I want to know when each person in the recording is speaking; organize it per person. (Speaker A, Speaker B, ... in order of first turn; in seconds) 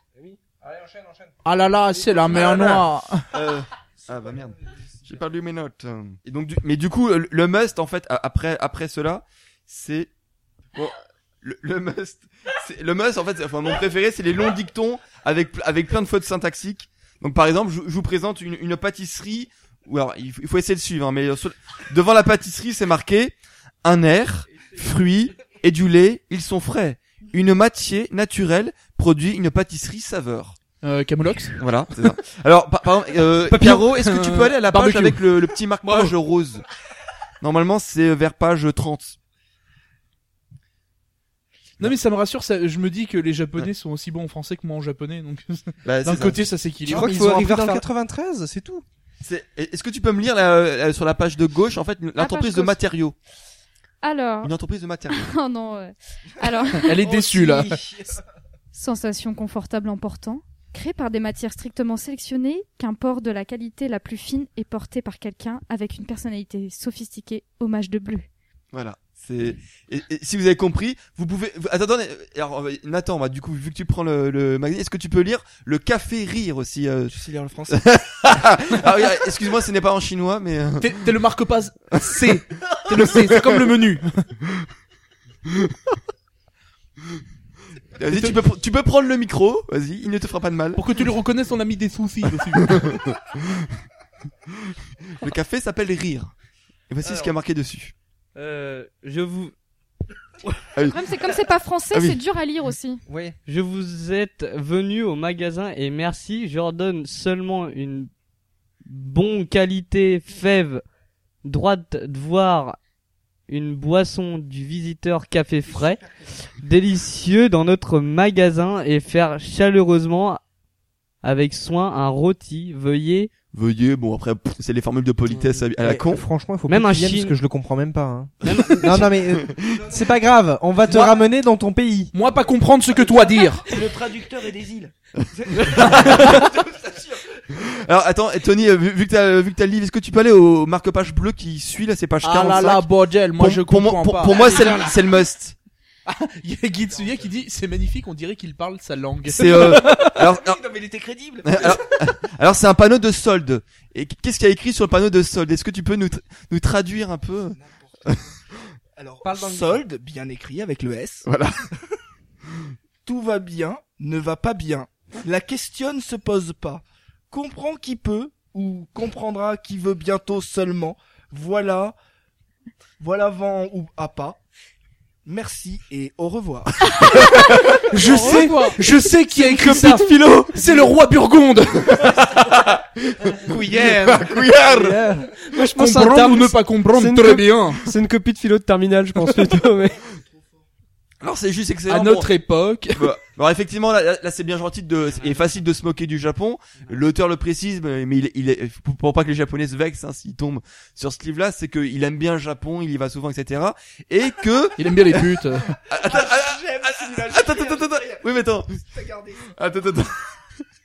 Speaker A: 0.1-1.4, 1.9-2.8, 4.1-5.2, 57.0-58.2, 77.1-77.8, 115.7-116.3, 129.7-130.1, 133.7-137.4, 144.5-144.8, 146.9-147.3, 149.8-151.8, 157.5-158.3, 159.0-161.3, 163.0-172.0, 173.0-174.4, 175.2-176.7, 178.1-178.7, 179.3-180.0, 180.5-180.9, 183.5-185.4, 189.8-190.7, 205.9-209.6
Speaker B: 1.4-3.3, 30.8-31.6, 33.5-35.3, 41.8-47.2, 56.8-57.8, 80.8-84.2, 88.1-88.4, 90.8-92.9, 132.1-133.7, 142.2-144.9, 146.1-150.1, 177.9-182.0, 185.8-187.8, 191.9-193.1, 204.8-205.8
Speaker C: 2.3-2.8, 3.3-10.1, 10.7-30.6, 31.6-36.6, 37.4-39.2, 45.9-46.4, 49.2-53.2, 54.4-55.3, 68.7-81.0, 82.0-82.3, 82.9-83.6, 85.5-85.8, 88.0-91.0, 92.4-93.7, 94.7-96.3, 96.9-97.9, 100.8-101.1, 101.9-102.2, 123.5-126.2, 128.4-129.9, 135.2-136.5, 137.6-145.6, 149.3-150.7, 151.4-157.6, 161.3-161.6, 177.1-177.8, 181.9-185.1, 191.2-192.3, 193.0-205.4, 205.9-208.8, 209.4-210.3
Speaker D: 46.9-47.9, 185.5-190.0
Speaker E: 46.9-48.8, 103.1-103.4, 125.8-132.1, 159.2-159.8
Speaker F: 52.2-52.8, 54.0-54.5, 55.1-57.0, 58.7-68.3, 100.9-103.0
Speaker G: 98.3-99.5, 103.5-108.1, 108.8-110.8, 111.5-112.8, 113.5-116.0, 116.6-120.4, 121.2-123.3, 126.7-127.4